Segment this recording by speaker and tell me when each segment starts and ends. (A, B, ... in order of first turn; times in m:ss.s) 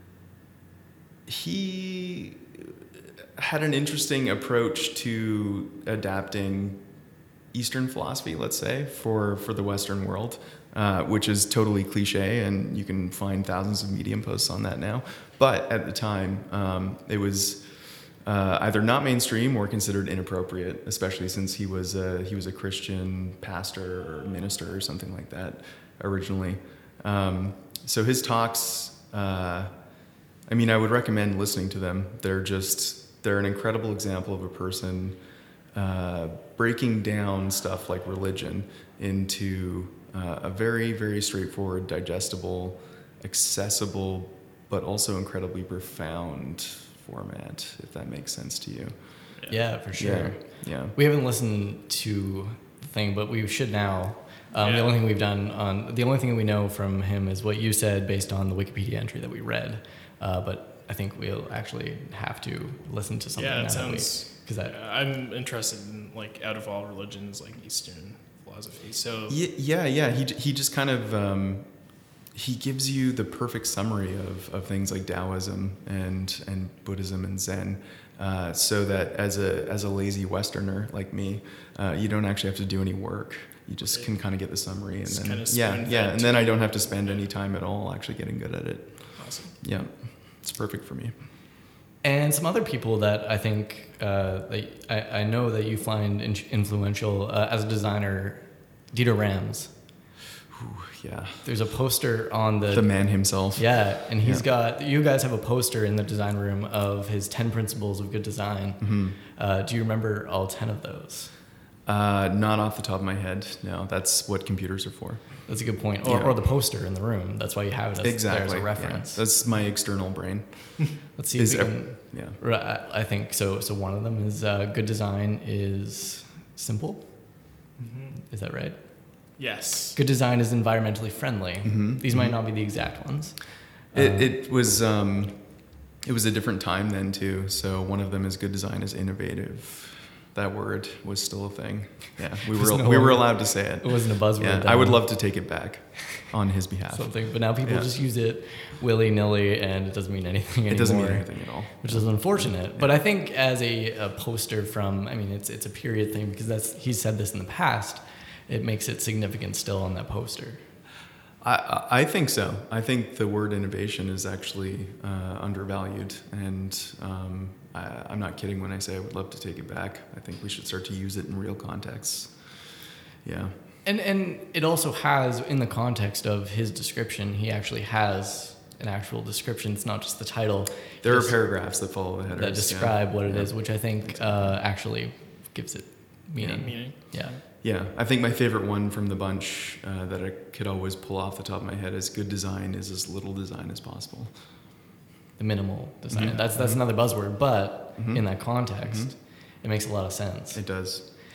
0:01.2-0:06.8 A
0:07.5-0:29.7 A
0:30.5-0:35.2 A
0:35.7-0:49.3 A
0:49.3-0:49.6 B
0:49.5-1:04.7 C
0:49.9-0:50.9 A
0:54.6-0:55.0 B
1:03.4-1:09.4 B
1:09.3-1:31.1 A
1:23.9-1:24.1 B
1:25.0-1:27.2 B
1:29.2-1:29.6 B
1:32.0-1:39.7 C
1:40.5-1:41.4 A
1:41.4-1:51.3 C
1:42.7-1:44.4 A
1:48.8-1:49.2 A
1:51.8-1:56.4 A
1:55.5-1:59.2 C
1:58.0-2:02.4 A
2:01.2-2:07.5 C
2:07.8-2:08.2 B
2:08.2-2:09.4 C
2:09.4-2:10.0 B
2:09.9-2:14.3 C
2:11.6-2:12.4 A
2:13.9-2:27.9 A
2:22.5-2:25.1 C
2:26.9-2:40.6 C
2:30.7-2:33.0 A
2:41.4-2:53.5 A
2:53.8-3:01.8 C
3:01.0-3:04.6 A
3:02.3-3:07.4 C
3:06.4-3:14.4 A
3:06.6-3:07.0 B
3:15.4-3:20.6 C
3:16.1-3:16.8 A
3:18.0-3:19.2 A
3:20.5-3:21.1 A